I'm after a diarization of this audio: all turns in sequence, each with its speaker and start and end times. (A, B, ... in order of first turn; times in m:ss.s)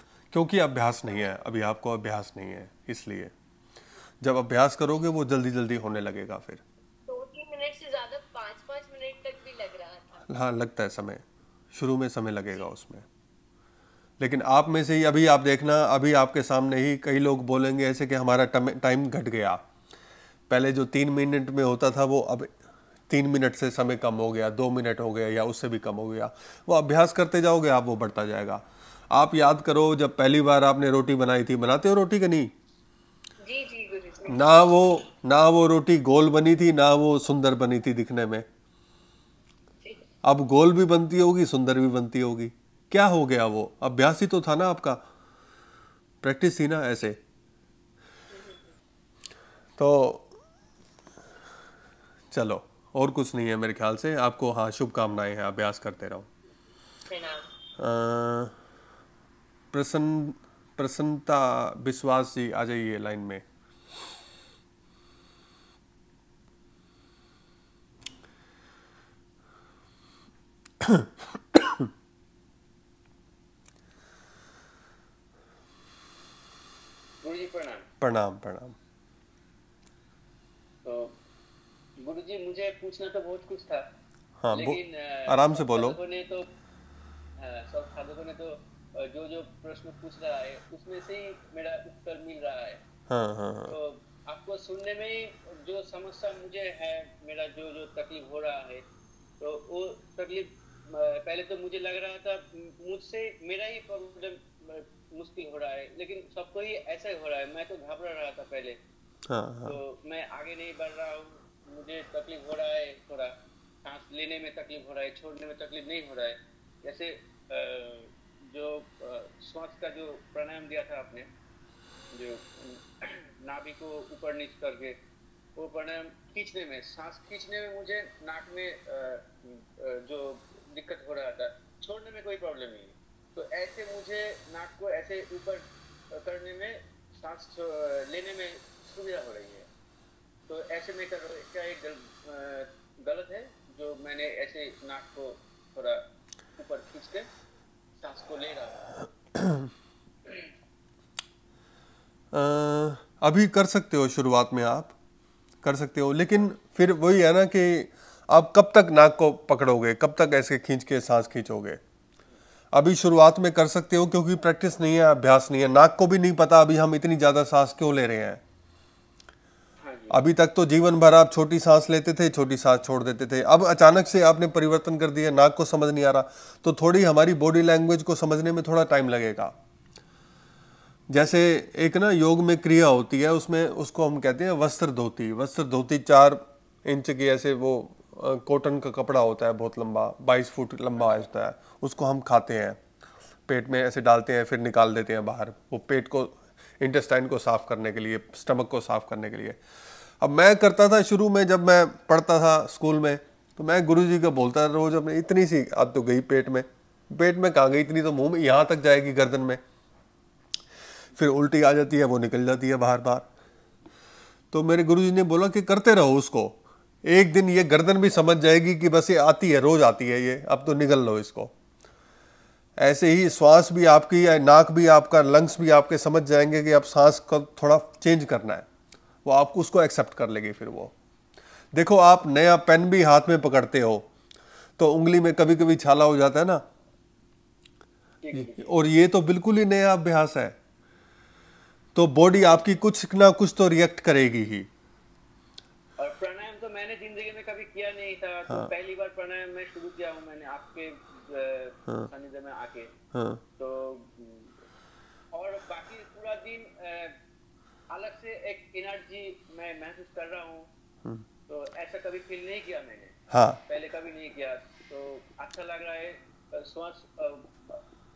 0:00.3-0:03.3 A
0:04.2-0:06.6 A
0:07.1-0:10.3 B
0:10.3-0:11.2 A
0:11.7-0:13.0 A
0:14.2-0:19.6 A
0:20.5-0:22.5 A
0:23.1-0:32.5 A
0:33.4-0:34.4 B
0:34.3-0:38.4 A
0:40.2-0:45.0 A
0:46.2-0:47.2 A
0:48.3-0:48.7 B
0:49.8-0:50.3 A
0:52.3-0:56.3 A
0:57.1-0:57.5 B
0:57.8-0:58.5 A
0:59.7-1:03.4 A
1:17.2-1:17.9 C
1:18.0-1:18.8 A
1:20.8-1:21.1 C
1:22.0-1:23.8 C
1:24.4-1:26.0 A
1:24.5-1:26.5 C
1:27.4-1:32.8 C
1:33.1-1:33.8 A
1:33.7-1:38.8 C
1:39.4-1:48.8 C
1:49.3-1:49.8 A
1:49.6-2:01.3 C
2:02.1-2:05.0 C
2:05.6-2:19.7 C
2:20.5-2:26.0 C
2:26.6-2:27.3 C
2:28.0-2:28.8 C
2:29.4-2:29.7 A
2:32.3-2:34.9 A
2:35.6-2:41.8 A
2:42.7-2:48.4 A
2:49.8-2:50.2 C
2:50.1-2:59.5 A
3:01.1-3:12.8 A
3:13.5-3:19.6 A
3:20.2-3:29.6 A
3:31.2-3:33.3 A
3:34.5-3:41.5 A
3:42.8-3:48.7 A
3:49.2-3:50.9 A
3:51.7-3:54.1 A
3:54.8-3:56.6 A
3:58.2-3:58.7 C
3:58.3-4:00.6 A
4:01.9-4:04.7 A
4:06.0-4:12.9 C
4:13.1-4:13.4 A
4:13.6-4:14.5 C
4:15.3-4:17.1 C
4:17.9-4:20.7 C
4:21.5-4:23.2 C
4:23.3-4:23.6 A
4:23.7-4:27.8 C